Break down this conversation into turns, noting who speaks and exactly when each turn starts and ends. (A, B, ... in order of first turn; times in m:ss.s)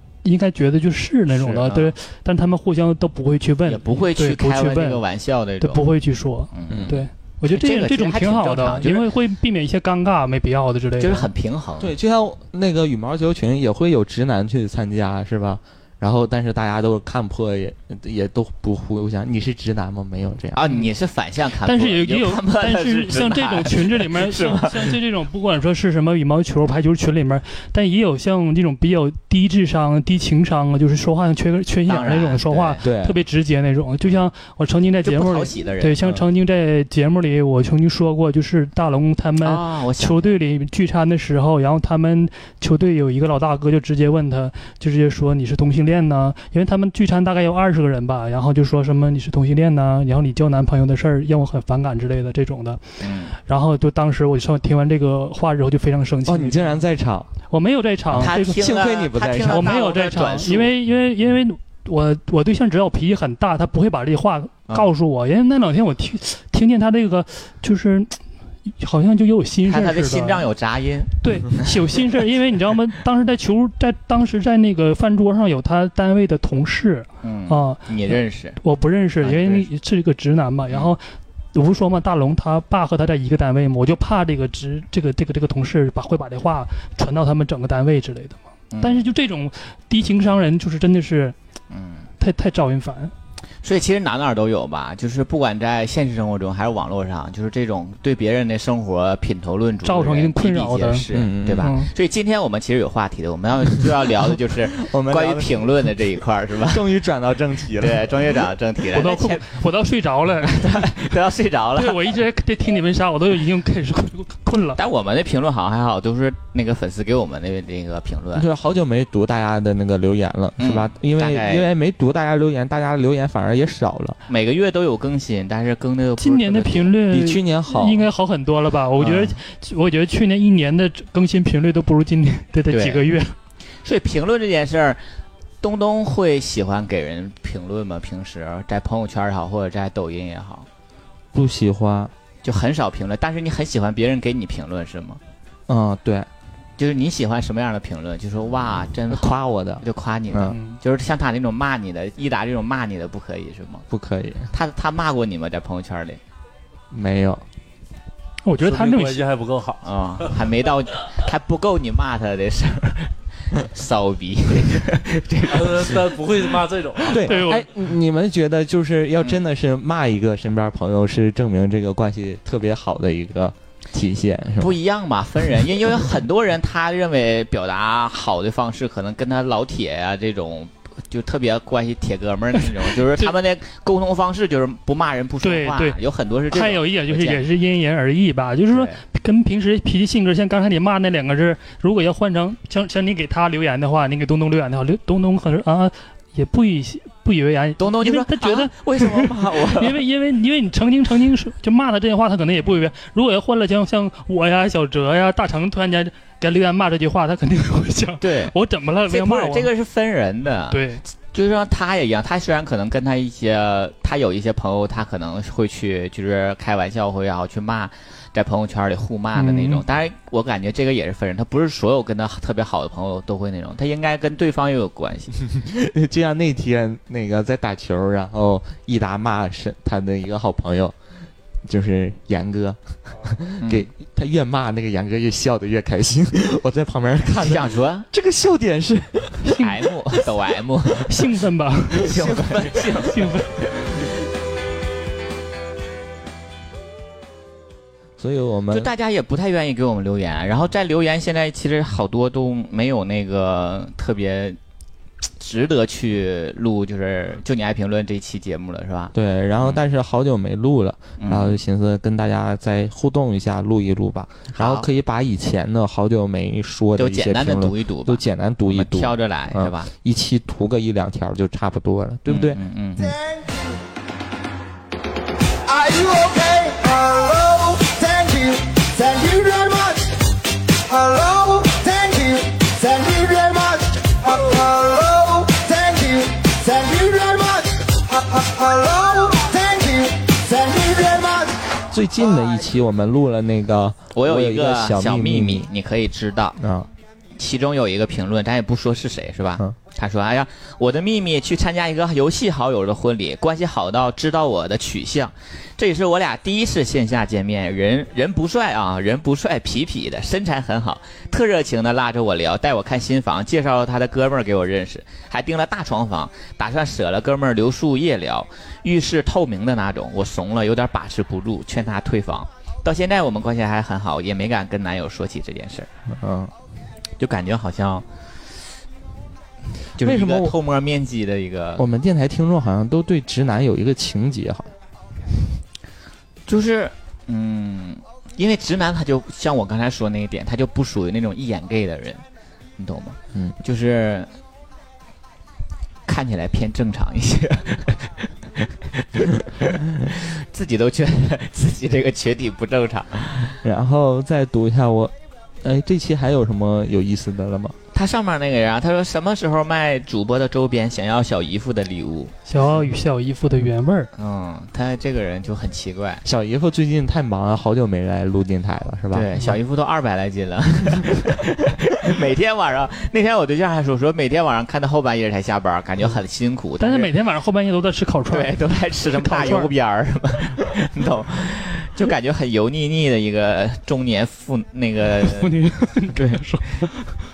0:00.2-0:05.0 A
0:01.3-0:01.9 B
0:03.6-0:05.9 B
0:05.6-0:11.3 A
0:06.5-0:09.1 B
0:06.7-0:07.1 C
0:11.0-0:11.9 B
0:11.8-0:20.7 C
0:20.5-0:24.9 B
0:21.6-0:56.8 A
0:31.9-0:32.8 B
0:32.8-0:33.2 C
0:35.0-0:36.2 B
0:39.4-0:40.3 B
0:53.0-0:53.3 B
0:56.2-0:57.3 C
0:57.5-0:58.6 A
0:58.1-1:00.7 B
0:58.1-0:59.8 C
0:59.4-1:10.5 A
1:09.6-1:11.7 B
1:11.2-1:31.3 A
1:17.2-1:18.6 B
1:19.2-1:19.7 B
1:28.7-1:29.1 B
1:31.7-1:32.1 B
1:32.2-1:33.1 A
1:33.6-1:46.8 B
1:39.8-1:41.1 A
1:41.1-1:41.8 C
1:41.6-1:41.9 A
1:44.8-1:45.7 C
1:46.7-1:48.1 C
1:47.8-1:49.4 B
1:48.9-1:51.1 A
1:50.5-1:52.0 B
1:51.8-1:54.8 A
1:54.8-1:58.4 B
1:58.3-2:04.2 C
2:00.6-2:01.7 B
2:04.3-2:06.9 B
2:06.2-2:13.4 A
2:07.1-2:08.1 C
2:09.0-2:09.3 B
2:12.7-2:13.0 B
2:13.8-2:15.0 B
2:15.6-2:20.7 B
2:21.3-2:22.1 C
2:22.4-2:25.2 B
2:25.7-2:26.3 C
2:26.8-2:33.8 B
2:29.1-2:30.6 C
2:30.4-2:30.8 A
2:33.9-2:34.5 C
2:34.5-2:36.2 B
2:36.9-2:37.4 C
2:38.4-2:39.2 A
2:38.6-2:40.5 D
2:39.8-2:46.1 B
2:45.5-2:47.4 D
2:47.1-2:54.8 C
2:47.2-2:47.7 A
2:54.6-3:07.4 B
3:02.7-3:03.3 A
3:05.4-3:06.0 A
3:06.5-3:29.7 A
3:08.7-3:09.0 B
3:17.8-3:20.0 B
3:28.2-3:28.5 B
3:29.1-3:45.4 B
3:30.7-3:31.0 A
3:39.3-3:39.8 A
3:45.4-3:50.9 C
3:51.6-3:59.6 C
3:53.6-3:53.9 B
3:57.4-3:58.1 B
3:59.4-3:59.8 A
3:59.6-4:01.2 B
4:01.0-4:02.2 A
4:01.9-4:03.3 B
4:02.0-4:03.1 C
4:03.0-4:03.7 A
4:08.2-4:08.9 C
4:08.7-4:14.6 B
4:15.4-4:19.8 B
4:19.1-4:32.6 C
4:21.2-4:21.6 B
4:24.5-4:24.9 B
4:27.0-4:29.9 B
4:32.3-4:33.1 B
4:33.0-4:33.7 E
4:35.6-4:40.2 E
4:40.8-4:51.8 E
4:51.9-4:55.7 C
4:54.1-4:56.6 B
4:56.6-4:56.9 C
4:57.4-5:25.9 B
5:26.1-5:26.5 C
5:27.2-5:28.0 B
5:29.9-5:31.8 B
5:30.0-5:30.6 C
5:31.8-5:34.7 C
5:36.5-5:42.2 B
5:42.8-5:44.3 B
5:46.0-5:53.5 B
5:53.6-5:57.8 C
5:57.9-6:02.3 B
6:02.4-6:04.1 A
6:04.2-6:06.2 B
6:06.2-6:09.3 C
6:09.1-6:17.1 B
6:16.8-6:19.7 A
6:18.3-6:25.6 B
6:25.1-6:27.1 A
6:26.1-6:26.4 B